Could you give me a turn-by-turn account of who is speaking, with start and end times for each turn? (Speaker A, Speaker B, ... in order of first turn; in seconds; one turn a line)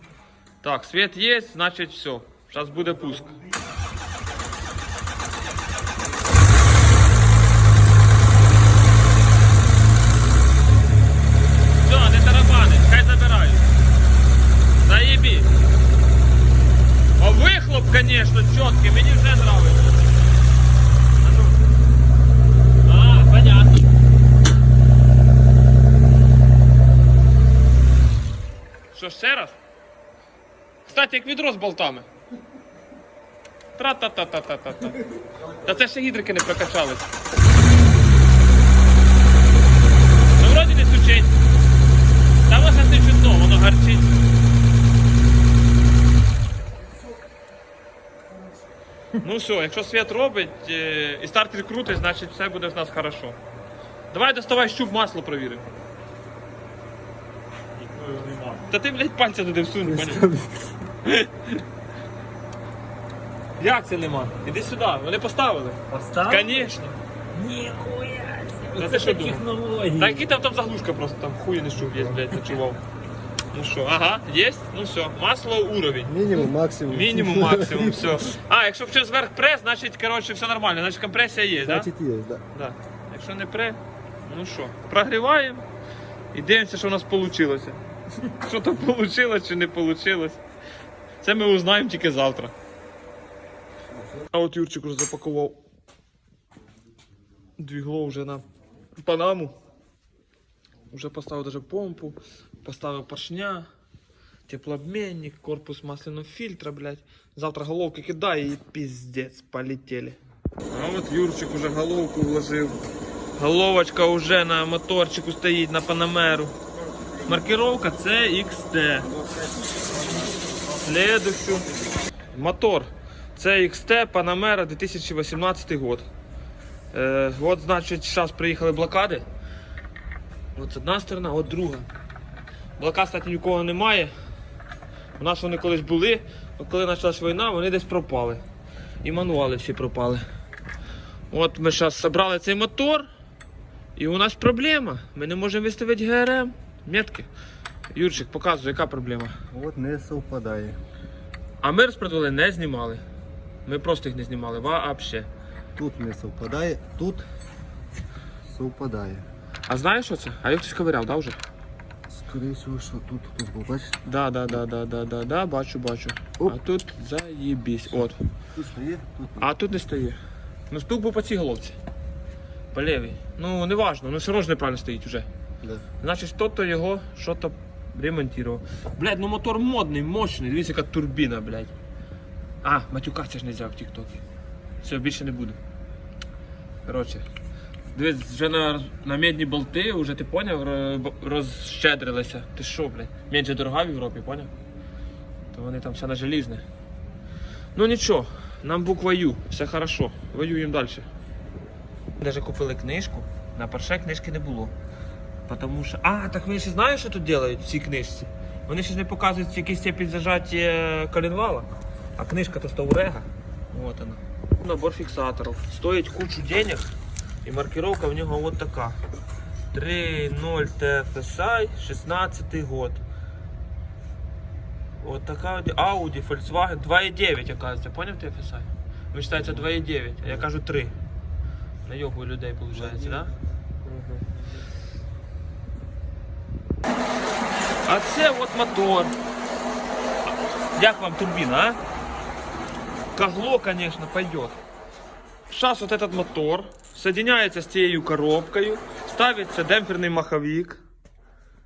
Speaker A: 0.6-3.3
Speaker A: 11.8-13.7
Speaker A: 14.8-15.5
Speaker A: 17.2-20.0
Speaker A: 21.2-21.6
Speaker A: 22.8-23.9
Speaker A: 28.9-29.6
Speaker A: 30.8-32.1
Speaker A: 33.8-37.1
Speaker A: 40.4-41.3
Speaker A: 42.5-44.1
Speaker A: 49.2-53.4
Speaker A: 54.1-55.6
Speaker B: 57.9-58.6
Speaker A: 58.7-60.3
Speaker C: 59.8-60.7
Speaker A: 61.0-61.6
Speaker A: 63.6-66.9
Speaker B: 65.9-70.2
Speaker A: 68.7-72.8
Speaker A: 73.5-76.1
Speaker C: 76.0-78.2
Speaker A: 76.9-81.9
Speaker C: 81.6-82.4
Speaker A: 82.5-85.6
Speaker A: 86.3-90.4
Speaker A: 91.2-92.5
Speaker A: 94.3-95.6
Speaker A: 97.6-98.4
Speaker A: 99.0-99.5
Speaker A: 100.9-103.7
Speaker A: 104.5-110.2
Speaker A: 110.7-112.8
Speaker A: 113.3-116.5
Speaker A: 117.2-119.2
Speaker A: 120.8-121.7
Speaker A: 122.3-126.0
Speaker A: 126.9-129.2
Speaker A: 130.5-131.9
Speaker A: 132.8-134.1
Speaker A: 135.2-138.4
Speaker A: 139.0-140.2
Speaker A: 141.3-143.1
Speaker A: 143.9-147.3
Speaker A: 147.9-149.3
Speaker C: 149.5-150.8
Speaker A: 151.6-153.0
Speaker A: 153.6-155.3
Speaker C: 155.8-157.2
Speaker C: 158.4-159.2
Speaker A: 159.7-161.4
Speaker C: 162.1-164.0
Speaker A: 164.0-168.2
Speaker C: 168.5-169.5
Speaker A: 169.4-170.2
Speaker A: 170.7-171.8
Speaker A: 172.7-175.3
Speaker A: 176.0-181.7
Speaker A: 182.6-184.2
Speaker A: 184.8-185.6
Speaker A: 186.8-187.2
Speaker A: 187.9-194.5
Speaker A: 195.5-196.6
Speaker A: 197.7-201.1
Speaker A: 202.2-204.7
Speaker A: 205.5-216.9
Speaker A: 217.4-219.0
Speaker A: 219.7-223.0
Speaker A: 225.0-230.9
Speaker A: 231.8-233.3
Speaker C: 232.8-233.1
Speaker A: 237.8-239.1
Speaker A: 240.7-241.8
Speaker A: 243.1-244.6
Speaker A: 245.5-250.8